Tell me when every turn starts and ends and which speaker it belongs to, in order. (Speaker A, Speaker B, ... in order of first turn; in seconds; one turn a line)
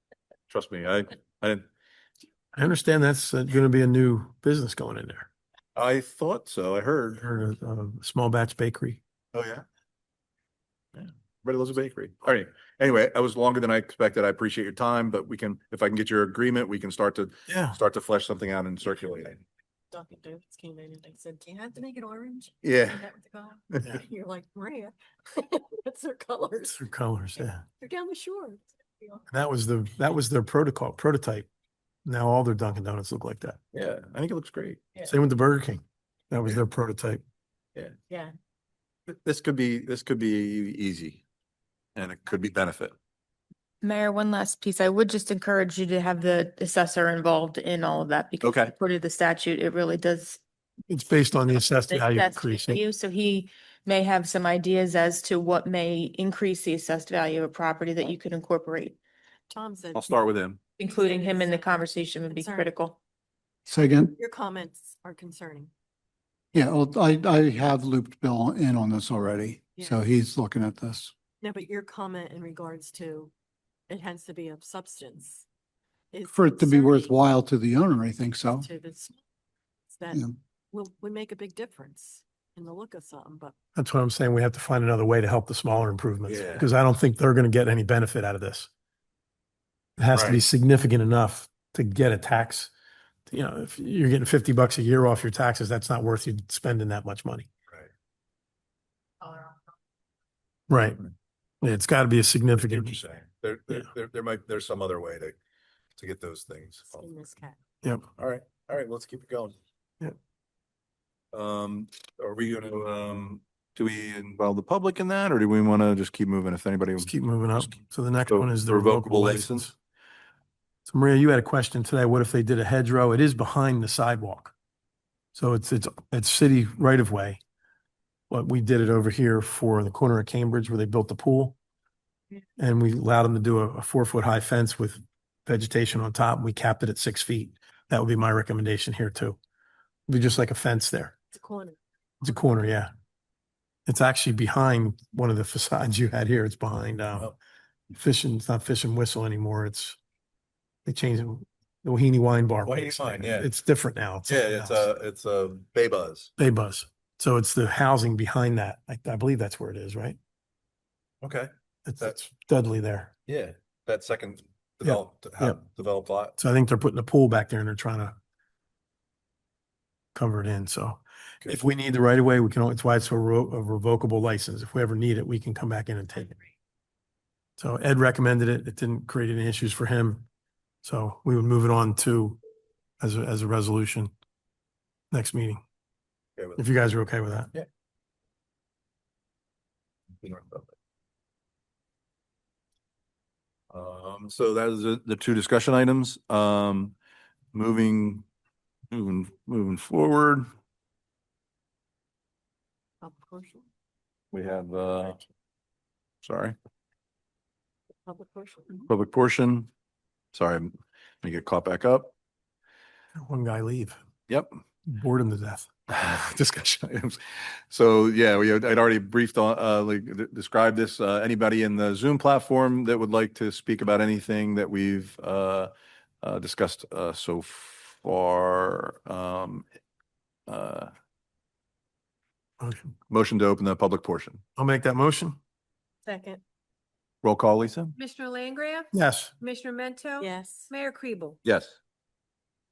Speaker A: 0.5-1.6
Speaker B: 2.5-5.3
Speaker A: 5.8-7.2
Speaker B: 7.2-9.0
Speaker A: 9.3-9.6
Speaker A: 10.9-19.4
Speaker B: 17.5-17.8
Speaker C: 19.9-29.2
Speaker A: 22.6-23.0
Speaker B: 26.7-27.6
Speaker B: 29.3-31.5
Speaker B: 32.0-33.6
Speaker A: 33.7-34.9
Speaker B: 35.0-37.2
Speaker A: 39.1-41.2
Speaker A: 42.0-42.9
Speaker D: 43.8-50.4
Speaker A: 48.4-48.7
Speaker B: 50.9-52.8
Speaker D: 51.9-59.0
Speaker C: 59.5-62.7
Speaker A: 59.9-60.6
Speaker D: 60.8-63.0
Speaker E: 63.7-64.1
Speaker C: 64.2-65.7
Speaker E: 66.5-71.1
Speaker C: 69.8-70.0
Speaker C: 71.4-73.3
Speaker C: 73.9-75.5
Speaker C: 76.1-77.2
Speaker E: 76.3-78.7
Speaker C: 78.6-79.2
Speaker C: 79.9-83.5
Speaker B: 83.8-88.7
Speaker A: 86.2-86.7
Speaker B: 90.0-92.7
Speaker A: 90.1-90.4
Speaker B: 93.3-97.5
Speaker B: 100.7-101.0
Speaker B: 101.6-103.0
Speaker A: 102.6-105.3
Speaker A: 106.0-107.1
Speaker C: 106.9-107.5
Speaker A: 108.2-109.6
Speaker A: 111.3-119.7
Speaker B: 117.0-119.7
Speaker B: 120.8-124.5
Speaker B: 125.3-127.4
Speaker B: 128.3-131.6
Speaker B: 132.6-139.4
Speaker B: 140.1-141.1
Speaker C: 141.3-141.8
Speaker B: 142.2-142.9
Speaker B: 143.9-147.3
Speaker B: 147.9-150.0
Speaker B: 150.8-154.9
Speaker A: 152.6-153.5
Speaker A: 154.3-156.3
Speaker B: 156.4-160.2
Speaker A: 161.2-161.5
Speaker B: 161.8-163.1
Speaker A: 163.3-166.3
Speaker B: 164.8-165.6
Speaker B: 166.4-168.1
Speaker B: 170.1-176.4
Speaker B: 177.6-180.3
Speaker B: 180.8-182.4
Speaker B: 183.0-184.1
Speaker B: 185.1-185.6
Speaker A: 186.4-186.6
Speaker B: 186.6-187.5
Speaker A: 190.2-190.7
Speaker A: 193.7-196.9
Speaker A: 197.5-198.2
Speaker A: 198.9-200.4
Speaker C: 203.0-203.7
Speaker A: 204.3-205.2
Speaker A: 206.2-206.5
Speaker C: 208.1-208.9
Speaker A: 208.9-209.7
Speaker A: 210.3-210.7
Speaker A: 211.2-212.1
Speaker B: 213.2-214.0
Speaker B: 214.9-215.7
Speaker A: 215.9-225.7
Speaker A: 226.2-229.7
Speaker A: 230.5-230.9
Speaker B: 232.6-232.9
Speaker A: 233.1-234.4
Speaker B: 234.6-235.4
Speaker C: 236.0-236.4
Speaker A: 237.2-237.9
Speaker F: 238.0-238.9
Speaker B: 238.9-239.3
Speaker F: 239.4-241.4
Speaker C: 240.2-240.7
Speaker A: 241.4-241.8